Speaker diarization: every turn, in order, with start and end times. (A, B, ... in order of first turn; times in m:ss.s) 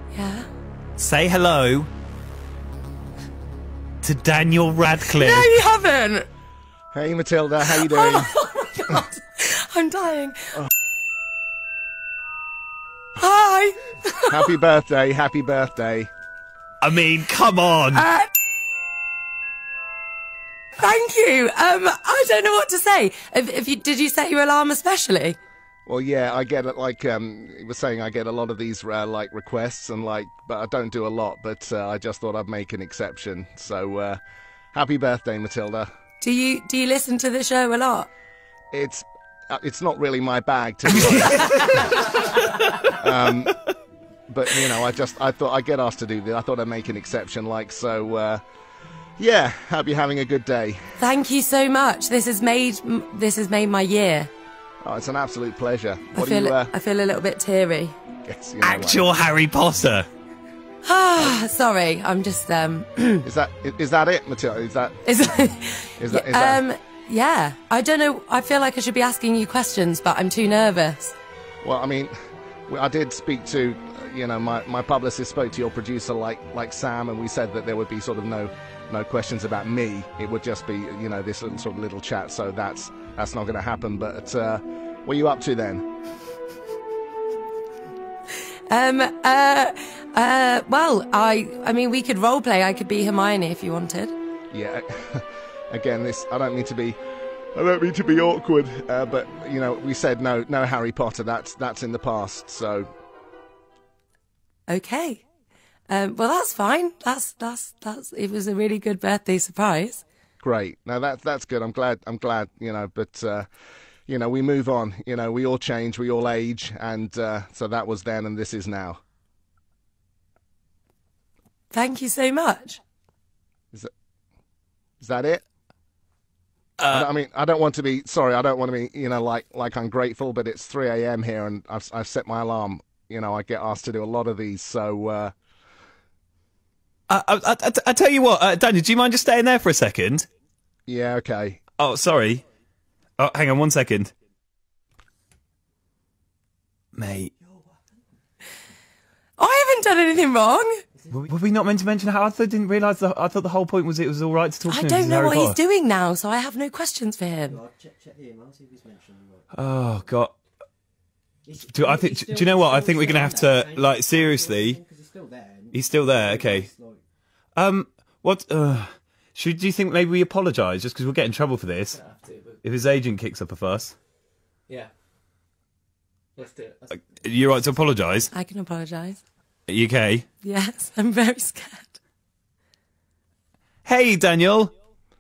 0:00.1-0:00.5 A
0:01.0-0:01.9 B
0:04.0-0:05.5 B
0:05.2-0:06.3 A
0:06.9-0:08.3 C
0:07.7-0:10.4 A
0:13.2-0:14.5 A
0:14.3-0:16.1 C
0:16.8-0:18.1 B
0:17.9-0:18.3 A
0:20.8-0:25.4 A
0:25.9-0:34.2 C
0:34.7-0:35.9 C
0:36.2-0:38.1 A
0:38.7-0:42.0 C
0:40.9-0:42.9 B
0:42.9-0:43.5 C
0:44.3-0:48.4 C
0:49.2-0:50.9 C
0:51.0-0:54.3 A
0:54.8-0:56.7 C
0:56.1-0:58.0 A
0:58.2-0:59.1 C
0:58.6-1:00.1 B
1:00.8-1:03.3 A
1:03.2-1:05.0 C
1:05.0-1:11.2 A
1:06.0-1:06.6 C
1:11.6-1:12.1 C
1:12.7-1:25.9 C
1:28.7-1:34.1 A
1:34.5-1:37.0 C
1:37.5-1:42.9 C
1:44.7-1:45.2 A
1:45.9-1:50.0 A
1:50.4-1:53.5 C
1:54.1-1:59.0 C
2:01.7-2:02.8 A
2:05.0-2:05.4 C
2:06.8-2:07.1 B
2:06.9-2:15.3 C
2:17.1-2:20.3 B
2:20.9-2:21.6 C
2:21.8-2:22.4 B
2:23.2-2:24.1 B
2:27.0-2:27.3 B
2:27.4-2:27.8 D
2:29.4-2:30.8 A
2:31.1-2:35.6 B
2:34.6-2:37.6 A
2:37.5-2:39.4 D
2:39.5-2:40.3 B
2:41.4-2:47.0 D
2:41.7-2:44.8 B
2:45.7-2:46.7 B
2:47.6-2:52.0 B
2:52.0-2:52.6 D
2:52.6-2:54.0 B
2:56.4-2:57.0 D
2:56.9-2:58.3 B
2:58.3-2:59.2 A
2:59.7-3:00.2 B
3:00.4-3:02.0 A
3:03.8-3:04.7 B